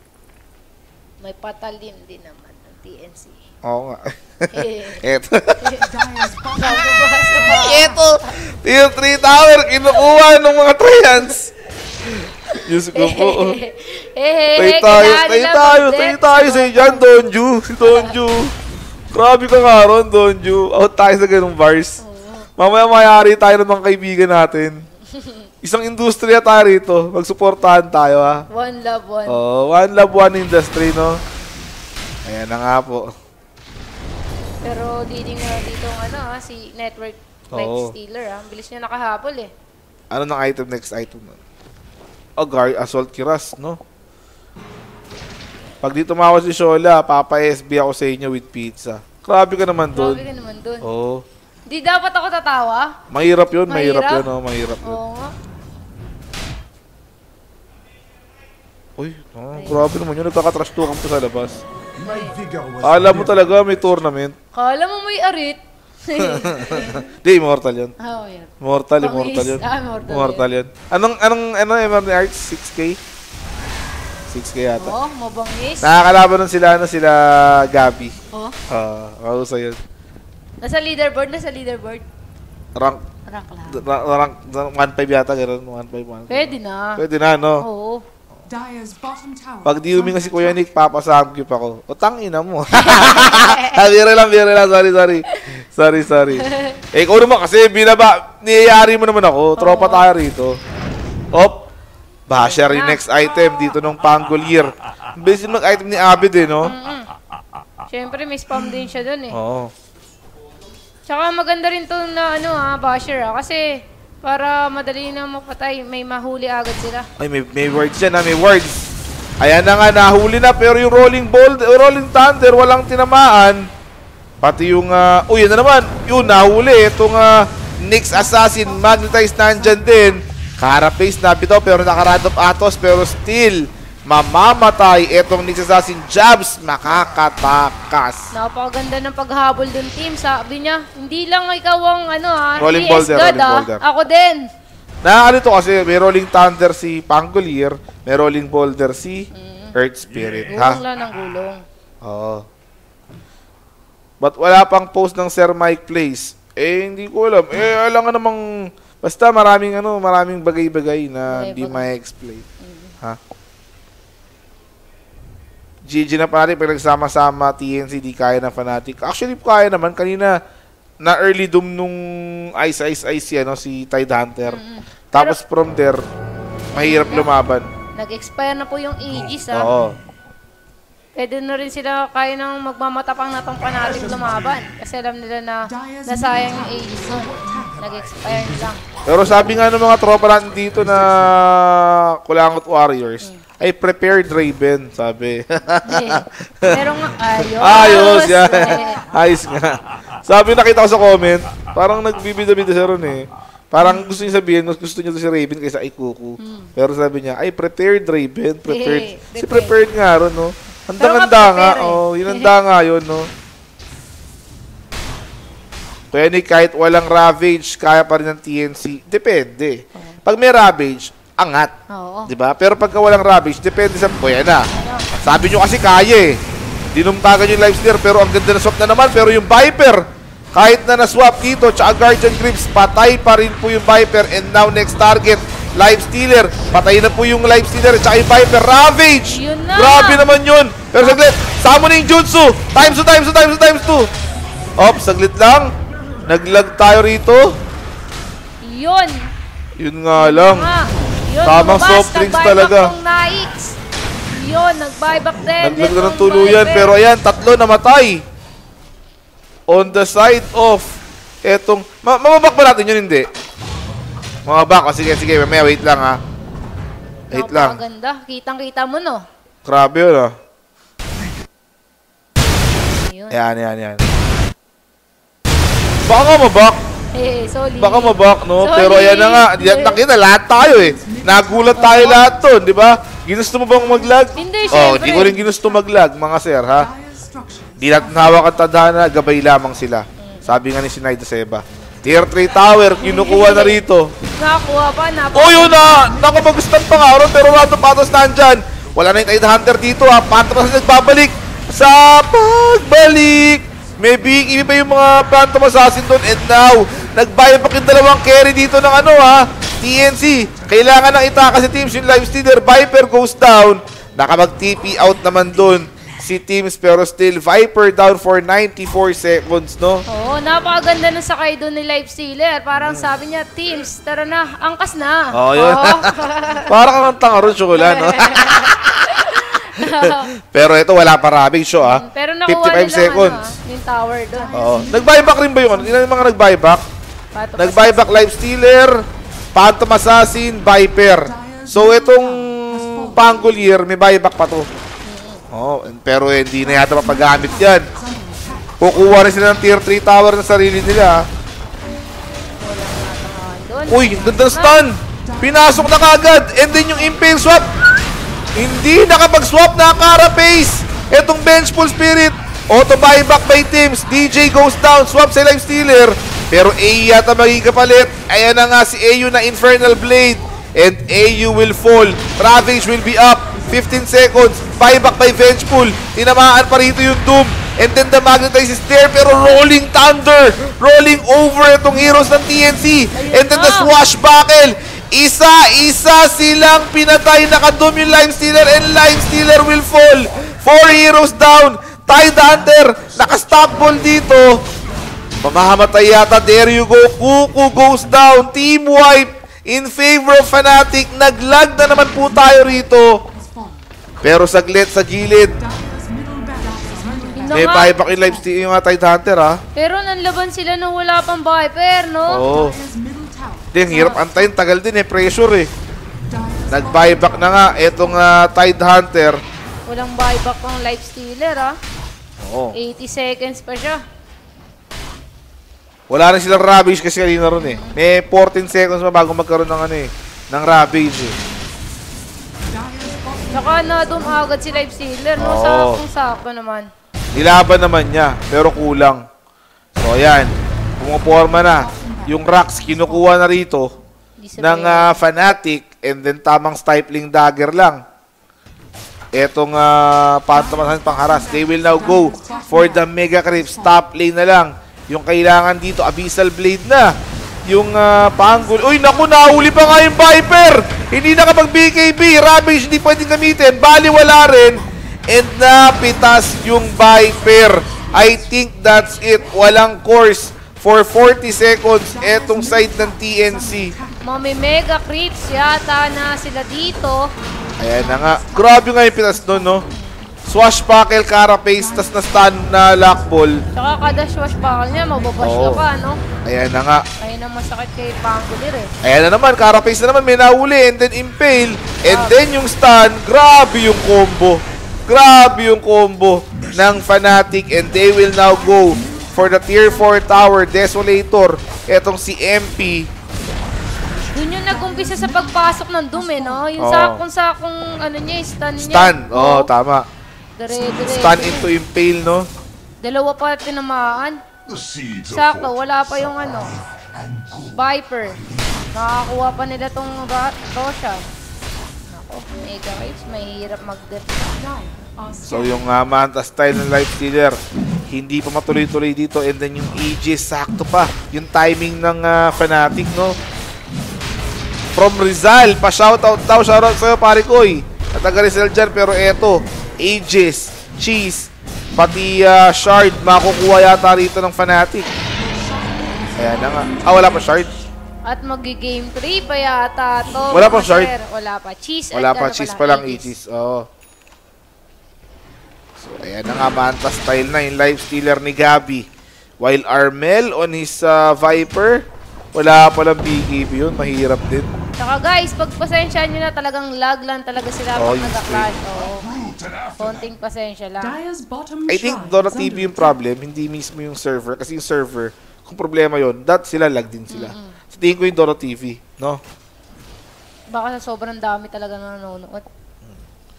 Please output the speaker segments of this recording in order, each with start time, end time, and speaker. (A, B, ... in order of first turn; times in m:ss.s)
0:01.2-0:03.4 A
0:03.6-0:05.8 B
0:04.5-0:05.0 A
0:05.8-0:08.0 C
0:06.5-0:08.4 A
0:07.5-0:11.5 B
0:12.5-0:17.2 A
0:12.5-0:13.6 B
0:14.6-0:18.5 B
0:17.8-0:18.1 A
0:19.1-0:22.0 B
0:22.0-0:22.5 A
0:22.6-0:24.8 B
0:25.1-0:25.4 A
0:25.6-0:28.4 B
0:28.5-0:29.4 A
0:29.3-0:31.2 B
0:32.2-0:33.1 B
0:34.6-0:39.5 A
0:37.5-0:37.9 B
0:40.1-0:41.4 B
0:42.4-0:43.8 B
0:45.8-0:50.2 B
0:49.9-0:50.8 A
0:50.8-0:51.2 B
0:51.7-0:52.9 A
0:53.1-0:55.0 B
0:53.7-0:54.2 A
0:54.8-0:55.3 A
0:59.0-1:01.6 B
0:59.5-0:59.9 A
1:02.0-1:02.4 A
1:02.8-1:04.4 B
1:04.5-1:07.1 A
1:06.2-1:07.9 B
1:08.0-1:10.5 A
1:08.6-1:13.0 B
1:14.3-1:15.0 B
1:14.8-1:15.9 A
1:15.8-1:18.1 B
1:18.3-1:18.6 A
1:18.7-1:19.8 B
1:20.6-1:22.0 A
1:22.8-1:23.0 B
1:23.2-1:23.8 A
1:23.7-1:27.6 B
1:26.3-1:27.0 A
1:27.6-1:28.0 A
1:28.4-1:30.6 C
1:29.6-1:40.6 B
1:32.7-1:33.8 A
1:36.3-1:36.8 A
1:39.6-1:40.1 A
1:41.3-1:41.6 B
1:42.3-1:46.7 B
1:42.5-1:43.0 A
1:46.6-1:47.1 A
1:47.9-1:49.4 A
1:49.3-1:49.7 B
1:51.0-1:57.1 A
1:57.2-2:03.6 B
2:04.4-2:18.3 B
2:08.1-2:10.2 C
2:18.3-2:24.5 A
2:22.6-2:23.8 B
2:25.0-2:30.8 B
2:29.3-2:29.8 A
2:30.5-2:31.6 A
2:32.0-2:32.4 B
2:34.2-2:38.4 B
2:39.0-2:42.4 B
2:41.3-2:41.9 A
2:42.6-2:42.9 A
2:45.8-2:50.4 B
2:51.0-2:54.6 B
2:54.4-2:55.4 A
2:55.1-2:56.0 B
2:56.7-2:57.3 A
2:56.8-2:57.7 B
2:58.0-2:59.7 A
2:59.5-3:00.0 B
3:01.2-3:08.8 A
3:05.7-3:07.9 C
3:09.0-3:16.8 B
3:15.8-3:19.0 A
3:17.4-3:33.3 B
3:26.4-3:26.7 A
3:28.7-3:29.8 A
3:31.0-3:32.5 A
3:36.1-3:41.7 B
3:39.9-3:40.2 A
3:41.9-3:42.3 A
3:42.3-3:44.7 B
3:44.7-3:45.1 A
3:45.2-3:46.4 B
3:46.9-4:04.1 B
3:59.2-4:00.2 A
4:01.0-4:01.2 A
4:04.8-4:05.7 B
4:06.2-4:07.5 B
4:08.6-4:09.3 A
4:09.8-4:10.7 B
4:10.1-4:13.8 A
4:11.4-4:12.9 B
4:14.3-4:16.9 A
4:15.6-4:18.2 B
4:19.7-4:23.3 B
4:24.4-4:26.2 B
4:27.3-4:27.8 B
4:27.3-4:29.2 A
4:29.6-4:30.3 B
4:32.9-4:33.4 A
4:33.3-4:34.0 B
4:36.0-4:36.8 B
4:37.1-4:40.0 A
4:37.8-4:46.9 B
4:40.6-4:42.3 C
4:41.8-4:42.3 A
4:43.7-4:45.8 C
4:44.4-4:45.4 A
4:46.7-4:48.6 C
4:47.8-4:54.1 B
4:50.2-4:50.6 A
4:53.0-4:53.8 A
4:54.4-4:56.2 A
4:55.3-5:20.0 B
5:20.1-5:26.7 A
5:22.7-5:23.1 B
5:25.3-5:33.5 B
5:27.7-5:30.3 A
5:31.8-5:34.6 A
5:34.3-5:36.4 C
5:34.5-5:36.8 B
5:37.3-5:38.3 A
5:37.6-5:39.0 B
5:39.5-5:44.7 B
5:41.2-5:43.5 C
5:45.0-5:45.4 A
5:45.5-5:47.9 B
5:46.6-5:48.8 C
5:48.8-5:51.2 B
5:52.6-5:54.9 A
5:53.9-5:57.7 B
5:55.1-5:57.6 C
5:58.5-6:34.6 B
6:23.1-6:23.9 A
6:35.4-6:43.2 B
6:42.4-6:42.6 C
6:43.3-6:43.9 C
6:44.2-6:45.6 B
6:45.6-6:48.7 C
6:47.4-6:48.0 A
6:47.5-6:49.6 B
6:49.7-6:52.5 A
6:52.3-6:52.8 B
6:52.3-6:54.5 C
6:53.7-6:55.7 B
6:53.9-6:54.2 A
6:56.3-6:58.5 C
6:56.7-6:59.4 B
6:59.8-7:01.8 A
7:02.4-7:02.7 B
7:02.7-7:04.0 A
7:06.1-7:11.4 B
7:07.5-7:08.0 A
7:12.6-7:14.9 C
7:13.5-7:16.9 A
7:15.4-7:16.0 B
7:17.3-7:19.2 B
7:20.0-7:23.9 B
7:21.3-7:23.3 C
7:24.4-7:25.2 A
7:24.6-7:28.0 B
7:29.3-7:37.1 B
7:30.5-7:34.0 C
7:32.2-7:32.8 A
7:37.7-7:53.9 B
7:38.2-7:40.2 C
7:47.0-7:48.5 C
7:52.0-7:54.3 C
7:54.2-7:57.3 A
7:57.8-7:59.8 B
7:57.8-8:00.0 C
7:59.9-8:00.2 A
8:00.5-8:03.6 B
8:01.7-8:05.9 C
8:03.7-8:06.2 A
8:05.4-8:05.8 B
8:06.4-8:07.0 B
8:07.2-8:08.9 A
8:09.0-8:23.1 B
8:12.0-8:12.4 A
8:18.3-8:20.4 C
8:24.1-8:26.7 C
8:24.3-8:29.7 A
8:26.8-8:27.2 B
8:28.8-8:30.0 B
8:30.6-8:31.7 A
8:30.9-8:32.5 B
8:33.0-8:34.4 A
8:35.0-8:36.7 A
8:37.5-8:41.2 A
8:42.1-8:44.5 A
8:44.5-8:45.8 C
8:45.5-8:53.4 B
8:55.0-9:05.1 B
9:05.3-9:07.8 C
9:06.4-9:07.7 B
9:08.3-9:13.3 A
9:10.5-9:11.1 B
9:12.1-9:13.9 B
9:16.0-9:19.0 B
9:19.6-9:24.7 B
9:25.0-9:31.2 A
9:28.0-9:28.7 B
9:31.0-9:33.2 C
9:31.9-9:39.4 B
9:37.3-9:37.8 A
9:40.7-9:42.6 A